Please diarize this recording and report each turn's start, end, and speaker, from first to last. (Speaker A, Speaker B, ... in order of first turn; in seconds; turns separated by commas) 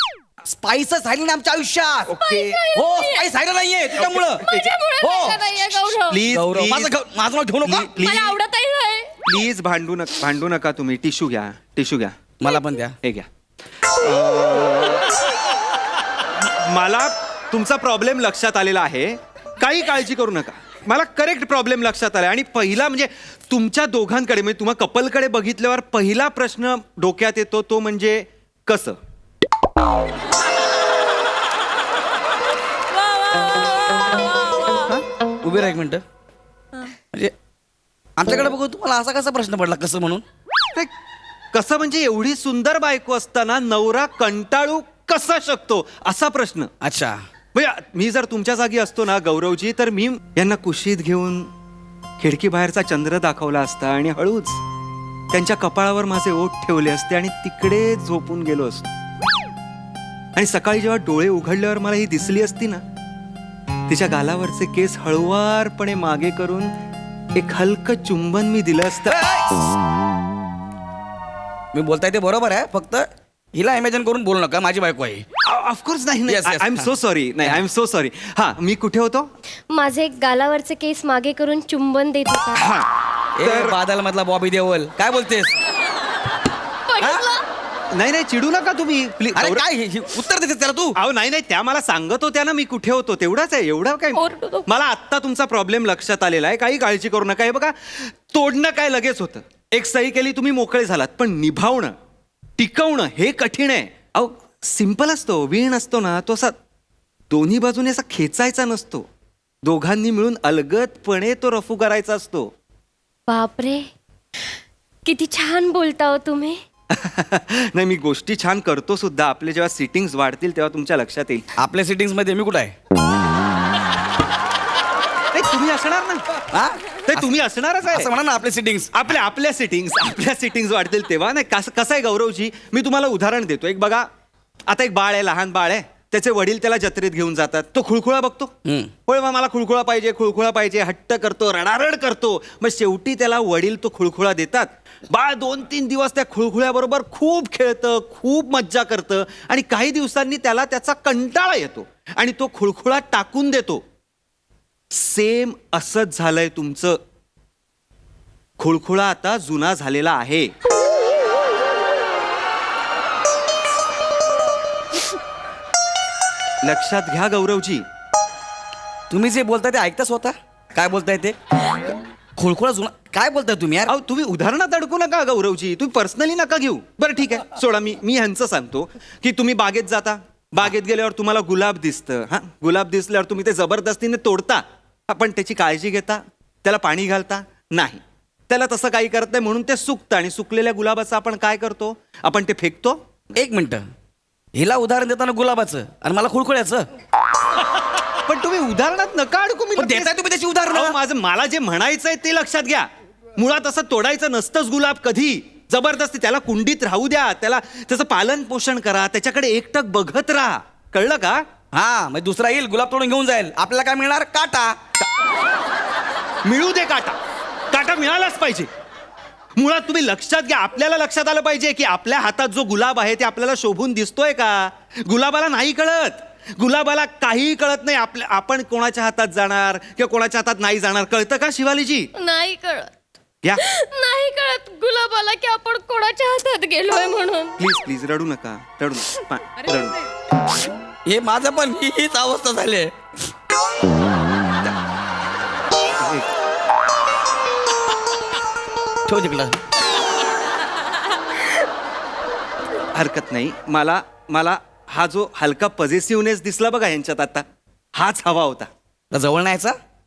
Speaker A: 0.4-2.1, Speaker B: 2.1-2.6, Speaker C: 2.2-3.3, Speaker A: 2.8-4.4, Speaker B: 3.9-4.7, Speaker C: 4.2-6.2, Speaker A: 5.0-5.4, Speaker B: 5.9-6.9, Speaker A: 6.3-7.9, Speaker B: 7.6-8.4, Speaker C: 8.0-9.1, Speaker B: 9.2-12.2, Speaker A: 12.4-13.0, Speaker B: 13.9-15.2, Speaker B: 16.4-29.0, Speaker A: 35.4-36.0, Speaker A: 38.2-40.2, Speaker B: 41.5-46.7, Speaker A: 46.8-47.2, Speaker B: 47.5-51.5, Speaker B: 52.2-54.6, Speaker B: 55.3-58.9, Speaker B: 60.4-62.8, Speaker B: 63.9-66.7, Speaker B: 67.3-69.2, Speaker A: 69.1-69.7, Speaker A: 71.7-75.2, Speaker B: 75.4-79.3, Speaker A: 76.3-77.6, Speaker C: 79.7-82.6, Speaker B: 82.5-82.9, Speaker A: 83.4-85.5, Speaker B: 83.4-83.8, Speaker C: 86.9-87.4, Speaker B: 87.9-89.7, Speaker A: 89.3-91.0, Speaker B: 91.0-101.9, Speaker C: 94.2-94.7, Speaker B: 102.6-106.5, Speaker B: 107.3-109.0, Speaker B: 109.6-112.5, Speaker C: 113.3-113.8, Speaker C: 115.0-116.6, Speaker B: 116.9-121.5, Speaker A: 121.6-122.7, Speaker B: 125.3-126.2, Speaker A: 126.5-127.3, Speaker B: 127.1-128.1, Speaker A: 127.8-128.9, Speaker B: 128.9-134.1, Speaker B: 134.7-138.5, Speaker A: 138.7-138.9, Speaker B: 139.1-153.8, Speaker B: 154.9-157.0, Speaker B: 158.6-160.5, Speaker B: 166.6-167.8, Speaker A: 169.1-171.3, Speaker A: 172.4-173.9, Speaker B: 173.9-193.0, Speaker A: 193.3-193.8, Speaker A: 194.5-196.9, Speaker B: 198.3-200.1, Speaker A: 199.7-201.0, Speaker B: 200.7-211.4, Speaker A: 211.7-214.8, Speaker B: 216.4-217.2, Speaker B: 217.7-218.7, Speaker B: 219.6-232.1, Speaker C: 232.2-232.9, Speaker C: 233.6-237.6, Speaker B: 237.6-240.0, Speaker A: 241.1-242.9, Speaker B: 246.0-246.3, Speaker A: 249.1-249.6, Speaker B: 252.9-258.7, Speaker A: 259.1-259.8